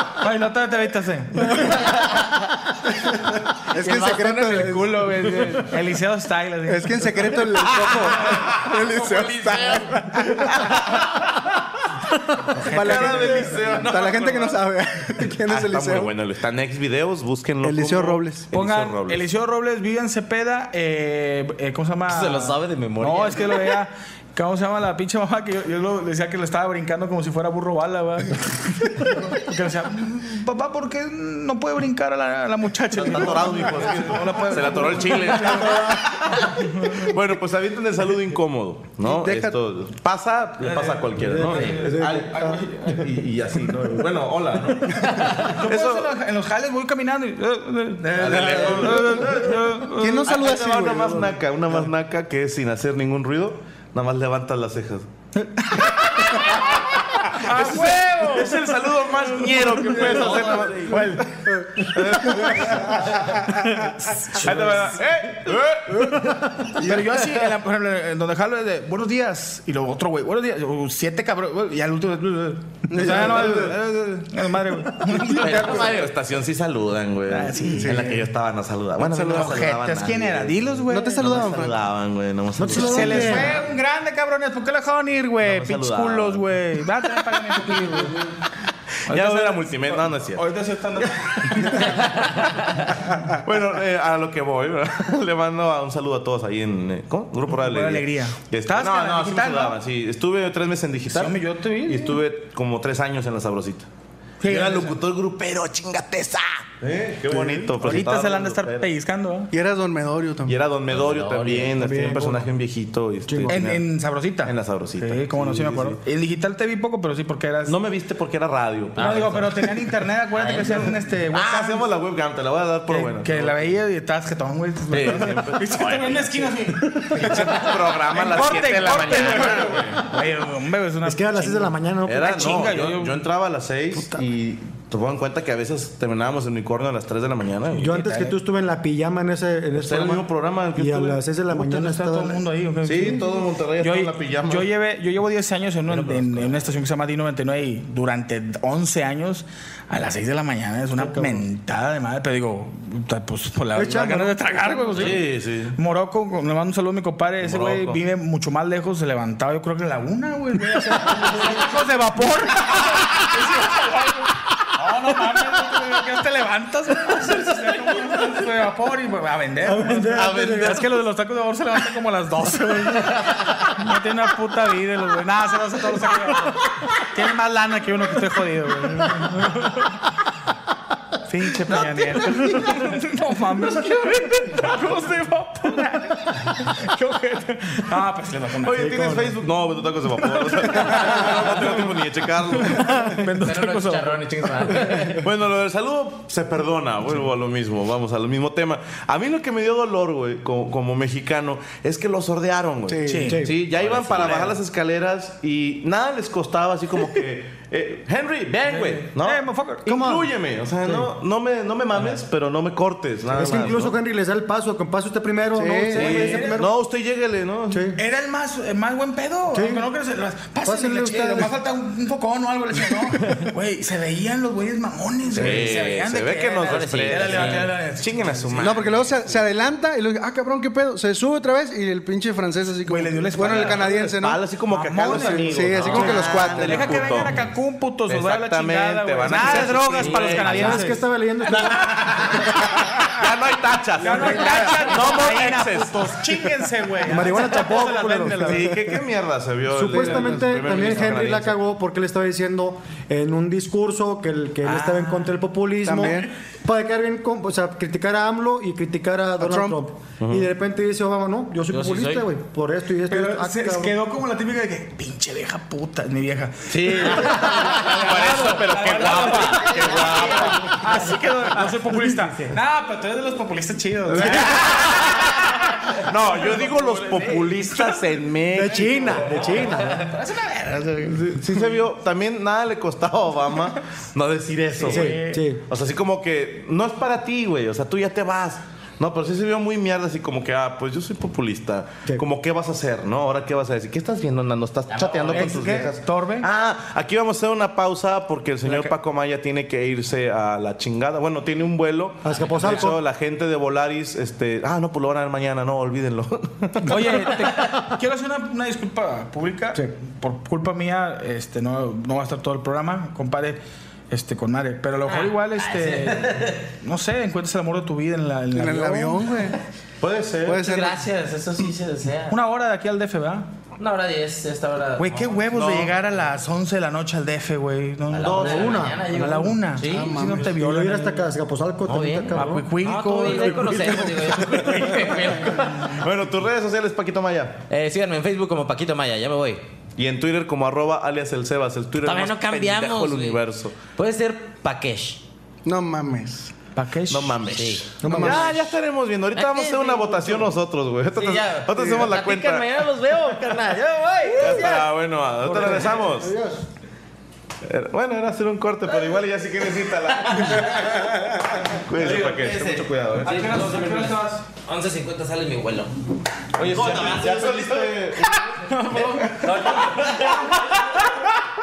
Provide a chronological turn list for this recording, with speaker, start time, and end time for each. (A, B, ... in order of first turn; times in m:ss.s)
0:00.2-0:01.6 A
0:03.7-0:05.5 B
0:03.9-0:04.7 C
0:04.0-0:10.1 A
0:06.7-0:10.5 B
0:10.5-0:11.2 D
0:12.5-0:13.9 A
0:12.7-0:16.1 B
0:12.7-0:14.6 D
0:15.5-0:19.2 D
0:17.6-0:18.5 B
0:18.5-0:36.0 A
0:22.1-0:23.8 C
0:32.9-0:46.1 D
0:35.5-0:36.0 E
0:39.0-0:39.6 B
0:40.6-0:43.1 A
0:41.2-0:42.6 E
0:41.5-0:41.8 C
0:45.2-0:50.4 A
0:48.1-0:55.1 D
0:50.0-0:51.4 B
0:55.6-0:56.5 A
0:56.0-1:03.3 D
0:57.3-1:00.5 A
1:00.1-1:01.0 C
1:00.1-1:00.5 B
1:01.6-1:02.5 B
1:04.1-1:05.0 A
1:04.3-1:06.4 D
1:06.8-1:16.1 A
1:06.8-1:07.2 B
1:12.9-1:13.8 B
1:15.3-1:23.6 D
1:15.5-1:16.1 C
1:17.3-1:18.2 A
1:17.8-1:18.2 B
1:19.0-1:21.5 A
1:20.9-1:21.8 B
1:22.6-1:23.6 E
1:22.7-1:28.3 A
1:25.4-1:26.4 D
1:29.1-1:30.4 D
1:29.1-1:32.3 A
1:31.4-1:32.0 D
1:33.4-1:43.9 D
1:37.5-1:39.8 A
1:41.1-1:42.2 A
1:44.4-1:45.0 A
1:44.4-1:48.9 D
1:47.5-1:49.5 A
1:49.5-1:50.6 B
1:50.5-1:53.8 D
1:50.9-1:51.8 C
1:51.8-1:52.5 E
1:53.3-1:53.6 E
1:53.5-1:57.8 A
1:54.4-1:56.0 D
1:57.7-1:59.3 D
1:59.0-1:59.6 C
1:59.0-2:01.9 A
2:00.4-2:00.9 C
2:01.3-2:03.8 D
2:02.9-2:13.2 A
2:04.9-2:06.3 D
2:06.9-2:10.1 D
2:08.3-2:09.7 C
2:11.0-2:12.7 E
2:12.1-2:18.0 D
2:17.8-2:20.2 E
2:17.8-2:18.4 A
2:19.8-2:21.2 D
2:20.8-2:22.4 E
2:21.5-2:35.2 A
2:22.8-2:24.7 D
2:25.9-2:26.7 C
2:31.0-2:31.4 E
2:33.8-2:35.0 E
2:35.0-2:35.8 D
2:35.8-2:59.9 A
2:37.4-2:38.0 D
2:40.8-2:41.6 E
2:49.6-2:50.8 E
3:01.3-3:09.1 A
3:08.6-3:13.1 D
3:08.8-3:09.4 E
3:10.3-3:11.9 A
3:12.6-3:15.1 A
3:13.4-3:15.3 C
3:15.2-3:34.0 D
3:22.9-3:23.4 B
3:23.1-3:23.4 A
3:23.3-3:23.6 E
3:23.8-3:24.5 C
3:28.6-3:30.1 A
3:29.9-3:30.2 E
3:33.3-3:36.6 E
3:35.6-3:36.7 B
3:35.9-3:37.9 D
3:36.0-3:36.6 A
3:37.7-3:38.0 E
3:38.0-3:48.7 A
3:39.5-3:39.9 E
3:40.6-3:41.5 E
3:45.3-3:49.4 D
3:46.6-3:47.8 C
3:48.6-3:54.4 B
3:52.9-3:54.0 A
3:53.4-3:57.4 D
3:54.7-4:01.0 A
3:55.0-3:57.3 B
3:55.8-3:56.3 C
3:58.1-4:00.9 D
3:59.5-4:00.4 C
4:00.4-4:02.4 E
4:01.5-4:06.2 D
4:04.0-4:08.5 A
4:04.1-4:04.7 E
4:07.1-4:08.9 E
4:07.6-4:11.6 D
4:09.7-4:24.0 E
4:14.6-4:15.4 A
4:15.8-4:16.3 B
4:19.4-4:19.8 B
4:20.2-4:20.5 D
4:21.7-4:22.3 C
4:23.1-4:35.2 A
4:26.7-4:30.8 D
4:27.1-4:31.1 C
4:32.0-4:32.3 E
4:34.1-4:35.2 D
4:36.0-4:39.4 D
4:36.4-4:38.0 A
4:36.5-4:37.5 C
4:38.5-4:40.1 E
4:38.6-4:41.7 A
4:39.6-4:40.1 C
4:41.1-5:07.3 D
4:44.8-4:45.4 A
4:44.8-4:45.6 E
4:54.9-4:55.7 C
4:55.3-4:56.0 E
4:55.3-4:56.4 A
4:58.6-4:58.9 A
5:02.2-5:03.0 E
5:02.3-5:02.7 C
5:06.8-5:13.6 A
5:14.1-5:19.3 A
5:15.1-5:16.6 C
5:18.5-5:19.6 B
5:20.0-5:20.6 D
5:20.4-5:21.1 B
5:20.6-5:22.4 C
5:22.3-5:23.5 A
5:23.8-5:25.7 C
5:25.0-5:31.3 A
5:25.5-5:26.0 D
5:28.1-5:30.2 C
5:28.2-5:29.0 D
5:28.3-5:29.1 E
5:29.8-5:30.5 B
5:30.1-5:32.7 E
5:31.8-5:36.1 C
5:32.4-5:35.6 A
5:35.8-5:37.6 D
5:37.7-5:39.6 C
5:40.0-5:43.8 D
5:42.0-5:43.4 C
5:44.0-5:45.2 C
5:45.6-5:46.5 B
5:46.8-5:47.4 A
5:47.1-5:52.7 D
5:47.5-5:48.0 C
5:48.0-5:48.5 E
5:48.0-5:48.6 B
5:49.3-5:50.6 C
5:51.1-5:54.9 C
5:54.4-5:56.3 D
5:55.4-5:56.7 E
5:57.7-6:03.8 D
5:58.9-5:59.2 C
5:59.9-6:05.9 C
6:03.2-6:04.4 A
6:06.6-6:08.4 D
6:06.6-6:11.3 C
6:08.7-6:10.1 A